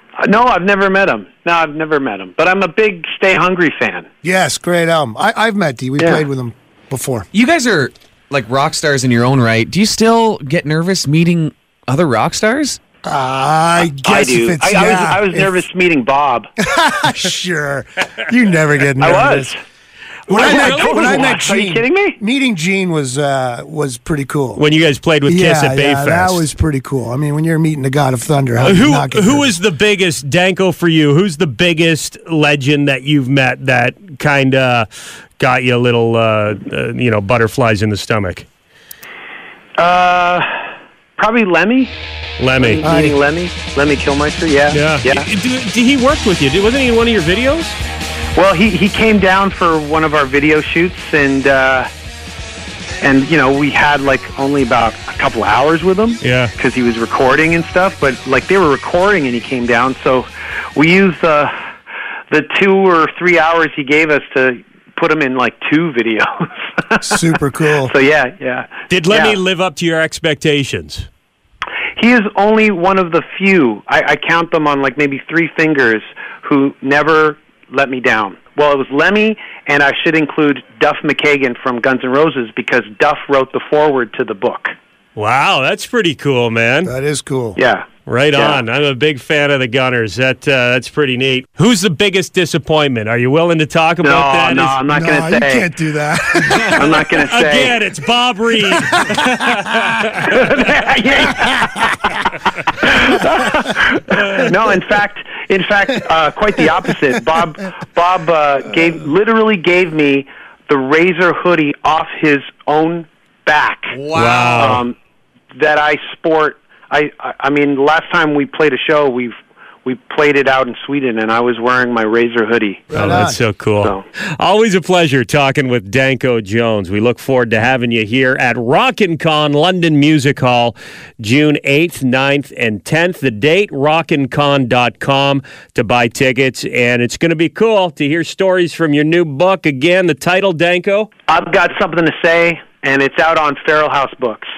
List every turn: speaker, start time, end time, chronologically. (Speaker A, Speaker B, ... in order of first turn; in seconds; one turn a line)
Speaker A: 0.2-4.1
Speaker B: 4.2-7.3
Speaker A: 6.0-6.2
Speaker C: 7.3-12.8
Speaker B: 13.0-15.6
Speaker A: 14.0-16.5
Speaker B: 16.6-19.5
Speaker A: 19.0-19.6
Speaker A: 20.3-22.2
Speaker B: 20.3-24.6
Speaker D: 20.3-21.4
Speaker D: 24.6-26.4
Speaker B: 25.3-29.5
Speaker D: 28.6-38.5
Speaker A: 39.8-41.9
Speaker D: 42.4-42.8
Speaker A: 42.6-45.3
Speaker B: 42.8-43.2
Speaker D: 44.7-47.8
Speaker A: 48.3-51.9
Speaker A: 53.0-61.5
Speaker D: 56.2-56.5
Speaker A: 62.3-67.3
Speaker B: 67.0-67.9
Speaker A: 67.8-69.4
Speaker D: 68.9-71.1
Speaker A: 72.0-84.7
Speaker D: 85.2-86.9
Speaker B: 86.8-87.6
Speaker A: 87.6-88.6
Speaker D: 88.1-94.8
Speaker A: 94.0-95.7
Speaker B: 94.9-97.0
Speaker A: 96.6-97.8
Speaker D: 96.7-100.4
Speaker A: 100.2-114.0
Speaker C: 113.9-114.8
Speaker D: 114.1-114.8
Speaker A: 114.6-114.9
Speaker A: 115.5-119.3
Speaker A: 119.8-122.9
Speaker B: 122.9-123.4
Speaker D: 122.9-141.1
Speaker A: 141.3-144.5